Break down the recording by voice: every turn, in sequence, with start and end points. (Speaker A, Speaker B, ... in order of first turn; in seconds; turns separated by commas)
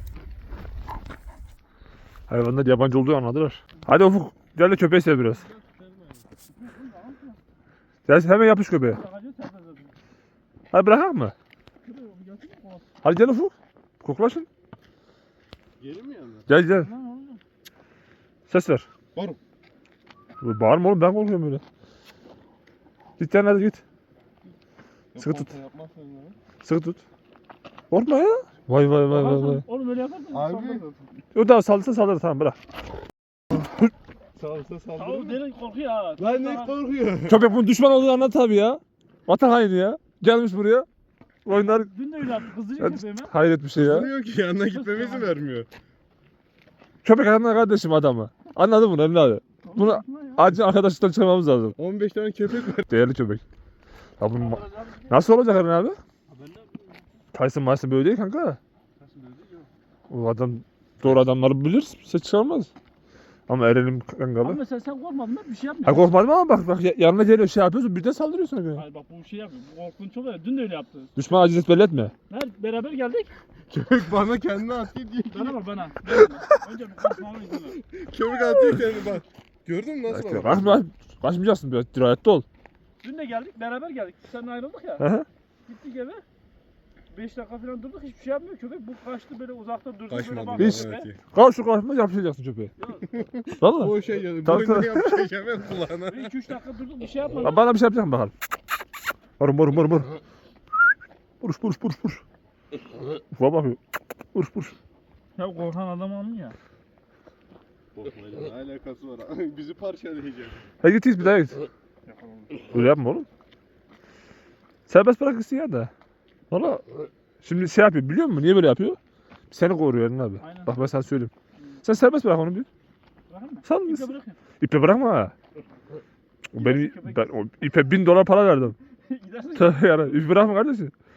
Speaker A: 2.3-5.5, Speaker B: 5.5-6.2, Speaker C: 6.5-7.4, Speaker A: 8.1-9.0, Speaker C: 8.8-9.9, Speaker A: 10.7-11.3, Speaker C: 11.8-12.9, Speaker A: 13.0-14.5, Speaker B: 15.8-16.5, Speaker A: 16.5-16.9, Speaker C: 16.6-17.4, Speaker A: 18.5-18.9, Speaker A: 20.4-21.6, Speaker A: 23.2-23.8, Speaker B: 25.1-26.4, Speaker A: 25.2-25.5, Speaker A: 26.6-27.0, Speaker A: 27.9-29.6, Speaker C: 29.1-31.1, Speaker B: 30.3-30.9, Speaker A: 31.3-32.6, Speaker B: 34.4-35.4, Speaker C: 35.0-36.7, Speaker B: 36.2-37.4, Speaker A: 37.2-40.9, Speaker A: 41.4-41.9, Speaker C: 41.5-43.3, Speaker A: 42.8-44.1, Speaker B: 43.8-45.7, Speaker C: 44.6-45.4, Speaker A: 47.0-51.8, Speaker C: 49.6-50.5, Speaker B: 51.8-52.9, Speaker A: 52.9-53.4, Speaker A: 54.2-56.0, Speaker C: 54.3-55.2, Speaker C: 56.3-57.1, Speaker A: 57.3-58.6, Speaker C: 59.0-59.7, Speaker A: 60.1-62.7, Speaker A: 63.5-64.6, Speaker C: 64.4-66.1, Speaker A: 65.8-68.8, Speaker C: 68.8-71.1, Speaker A: 71.2-72.1, Speaker C: 72.3-73.3, Speaker B: 73.7-75.6, Speaker C: 75.3-77.8, Speaker B: 77.7-80.8, Speaker A: 80.1-82.4, Speaker C: 83.0-85.1, Speaker A: 85.0-85.3, Speaker C: 85.7-86.2, Speaker C: 87.1-91.1, Speaker B: 90.1-91.2, Speaker A: 90.6-92.7, Speaker C: 92.8-93.2, Speaker B: 93.1-96.4, Speaker A: 93.6-95.3, Speaker C: 96.1-97.6, Speaker A: 97.4-98.3, Speaker A: 99.4-100.2, Speaker A: 101.4-102.2, Speaker A: 103.3-103.8, Speaker A: 104.3-104.8, Speaker C: 105.3-106.6, Speaker B: 108.0-110.7, Speaker A: 110.8-111.6, Speaker C: 112.1-112.8, Speaker A: 112.7-113.3, Speaker A: 114.9-115.9, Speaker A: 116.5-116.8, Speaker A: 117.4-119.0, Speaker A: 119.5-121.3, Speaker C: 120.4-121.0, Speaker C: 121.6-121.8, Speaker A: 121.8-122.7, Speaker C: 123.3-124.4, Speaker A: 123.6-125.3, Speaker A: 126.5-128.8, Speaker C: 126.6-127.3, Speaker C: 129.0-130.4, Speaker A: 129.6-130.9